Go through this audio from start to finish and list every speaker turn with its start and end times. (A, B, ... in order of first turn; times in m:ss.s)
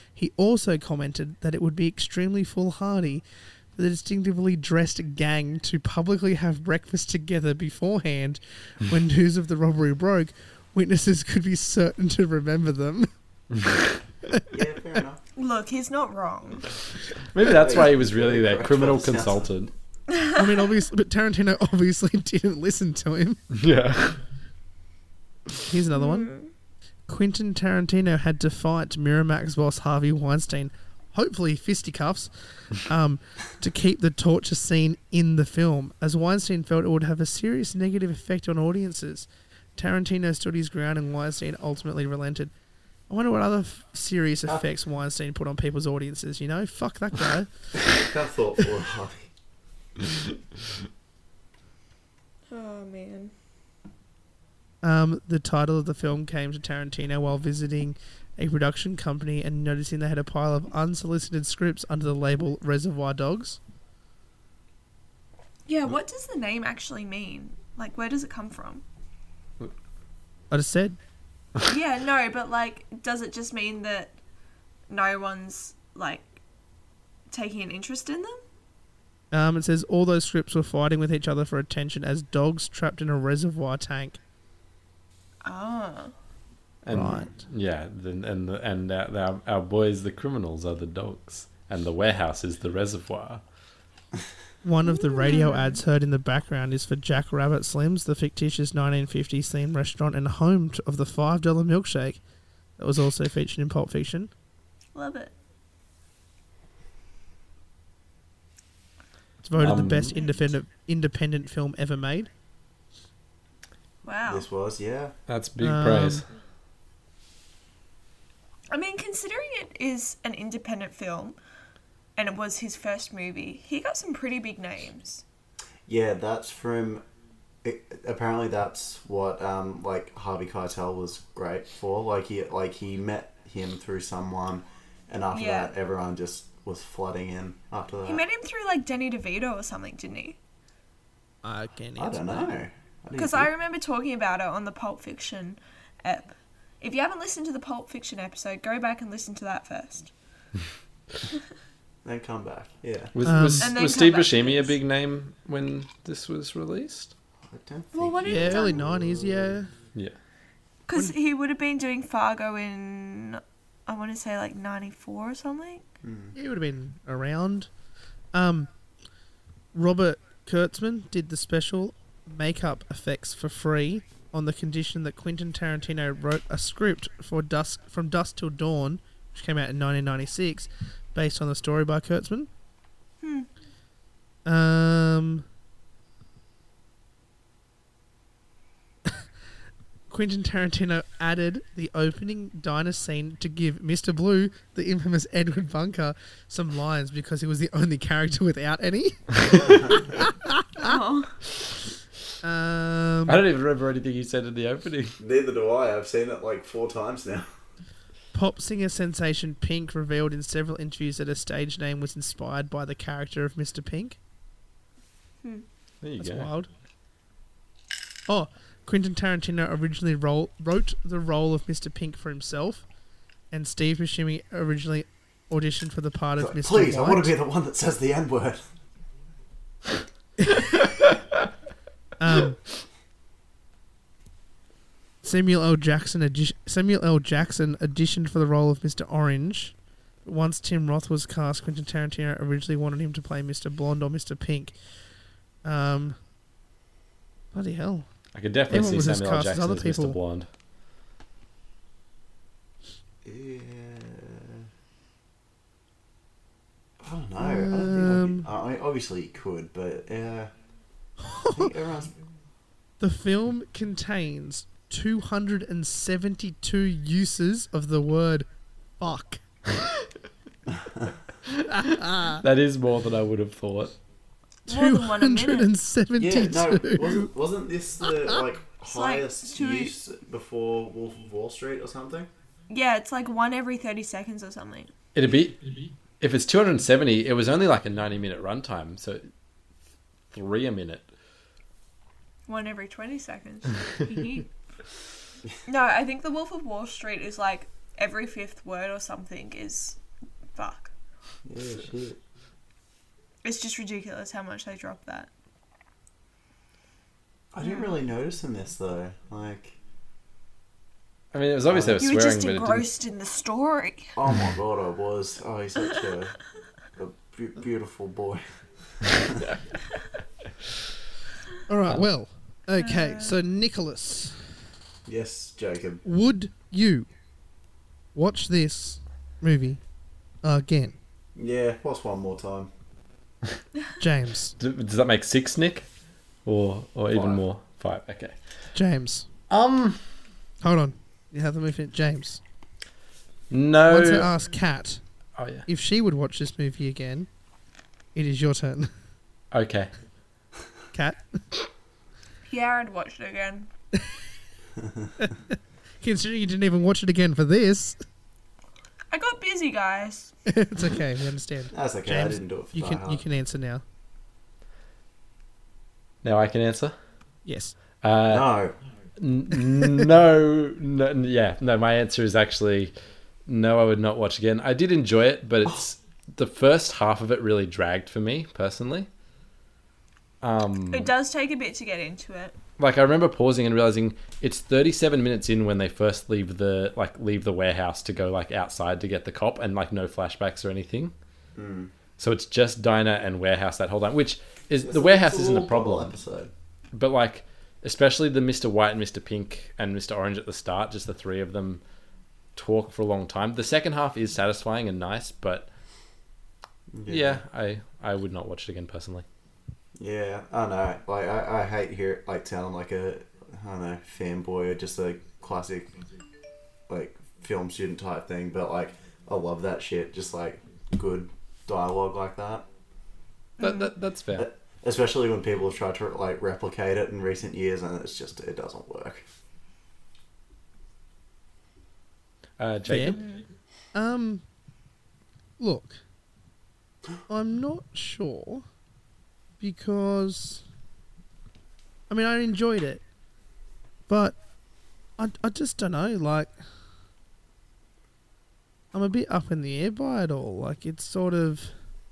0:00.2-0:03.2 A
0:03.8-0:13.1 A
0:14.5-0:15.2 B
0:15.4-0:16.6 C
0:17.3-0:19.7 D
0:17.4-0:19.5 B
0:20.1-0:20.4 C
0:20.3-0:23.4 A
0:23.5-0:24.2 D
0:25.6-0:26.3 A
0:25.9-0:26.5 C
0:27.1-0:42.5 A
0:43.1-0:47.5 A
0:47.9-0:49.3 B
0:52.5-0:53.3 C
0:54.8-1:03.6 A
1:05.6-1:08.8 C
1:10.5-1:11.0 A
1:11.6-1:14.2 C
1:14.9-1:16.4 C
1:17.3-1:18.4 C
1:19.3-1:24.2 A
1:25.4-1:26.1 C
1:26.8-1:33.4 D
1:26.9-1:27.4 A
1:34.6-1:42.2 A
1:34.8-1:35.8 C
1:42.8-1:44.3 A
1:44.9-1:45.3 C
1:49.4-1:52.3 A
1:49.6-1:50.2 D
1:49.8-1:50.4 C
1:54.0-1:54.4 C
1:54.2-1:55.1 B
1:55.3-1:56.2 D
1:55.6-1:56.2 A
1:58.7-2:01.4 C
2:02.2-2:05.2 C
2:05.9-2:07.0 B
2:07.6-2:18.2 B
2:15.3-2:15.7 C
2:18.0-2:20.4 C
2:21.4-2:22.5 A
2:22.0-2:23.5 B
2:23.2-2:30.1 C
2:32.0-2:33.1 B
2:33.1-2:37.1 D
2:33.2-2:33.7 A
2:33.6-2:34.7 C
2:37.4-2:39.5 B
2:37.9-2:38.8 C
2:38.2-2:39.7 A
2:40.9-2:45.9 C
2:46.0-2:46.3 B
2:46.3-2:47.7 A
2:48.3-2:48.7 A
2:49.7-3:02.5 A
3:03.2-3:03.5 C
3:04.4-3:05.4 A
3:10.1-3:21.0 A
3:19.6-3:20.0 B
3:20.8-3:21.3 C
3:22.4-3:23.4 A
3:23.3-3:25.2 D
3:25.2-3:27.5 B
3:28.3-3:34.2 A
3:36.0-3:36.5 D
3:36.2-3:36.7 A
3:38.3-3:42.8 A
3:43.5-3:47.3 A
3:46.4-3:48.6 B
3:50.4-3:50.7 A
3:52.2-3:52.6 A
3:55.2-4:04.7 A
4:05.6-4:06.2 A
4:07.5-4:08.1 A
4:08.3-4:10.5 D
4:08.7-4:10.2 A
4:13.2-4:14.7 B
4:17.0-4:20.5 B
4:17.4-4:18.5 A
4:21.2-4:21.7 A
4:21.5-4:22.2 B
4:23.0-4:28.5 A
4:29.0-4:29.4 A
4:30.7-4:31.2 B
4:31.6-4:32.4 A
4:32.3-4:34.0 D
4:34.7-4:35.7 C
4:34.7-4:37.3 A
4:36.2-4:42.3 B
4:38.9-4:39.9 C
4:42.7-4:44.9 C
4:45.1-4:49.2 D
4:50.3-4:51.1 D
4:52.5-4:54.5 C
4:55.6-5:00.0 C
5:00.6-5:00.9 C
5:01.4-5:02.2 B
5:03.4-5:05.3 C
5:07.5-5:09.8 B
5:07.6-5:07.9 C
5:11.3-5:12.9 D
5:11.7-5:12.1 B
5:12.0-5:14.2 C
5:14.1-5:16.4 B
5:17.0-5:19.4 B
5:21.7-5:24.4 A
5:22.8-5:23.4 C
5:25.0-5:26.0 B
5:26.0-5:27.1 A
5:28.1-5:29.8 A
5:30.4-5:31.0 A
5:31.4-5:32.7 B
5:34.0-5:34.6 A
5:34.6-5:35.9 D
5:36.4-5:38.3 D
5:37.1-5:37.4 B
5:38.7-5:39.3 A
5:39.5-5:40.0 D
5:40.6-5:42.4 A
5:43.5-5:44.3 D
5:43.9-5:45.0 A
5:45.4-5:45.6 D
5:45.7-5:47.3 A
5:48.1-5:48.9 A
5:49.5-5:49.9 D
5:50.9-5:51.4 A
5:52.5-5:53.7 C
5:54.8-5:55.1 B
5:55.2-5:58.0 A
5:59.1-6:00.3 C
6:00.4-6:03.8 A
6:01.7-6:03.2 B
6:06.2-6:07.0 D
6:07.4-6:07.8 A
6:08.0-6:08.5 D
6:08.3-6:08.7 B
6:09.2-6:12.9 D
6:13.5-6:19.1 D
6:20.4-6:21.1 D
6:20.9-6:22.6 C
6:22.8-6:31.1 D
6:31.6-6:31.9 B
6:32.2-6:36.1 D
6:34.8-6:36.5 B
6:36.9-6:41.8 D
6:42.6-6:45.7 D
6:46.9-6:47.4 B
6:47.1-6:49.2 D
6:50.0-6:55.9 B
6:56.9-7:02.6 B
7:03.6-7:03.9 C
7:03.6-7:04.5 D
7:04.3-7:09.2 B
7:12.6-7:13.3 D
7:12.9-7:13.2 A
7:13.9-7:14.4 A
7:15.6-7:16.0 A
7:17.3-7:18.6 A
7:19.6-7:20.6 A
7:22.1-7:23.0 A
7:24.1-7:24.4 A
7:25.2-7:26.5 A
7:28.9-7:31.7 A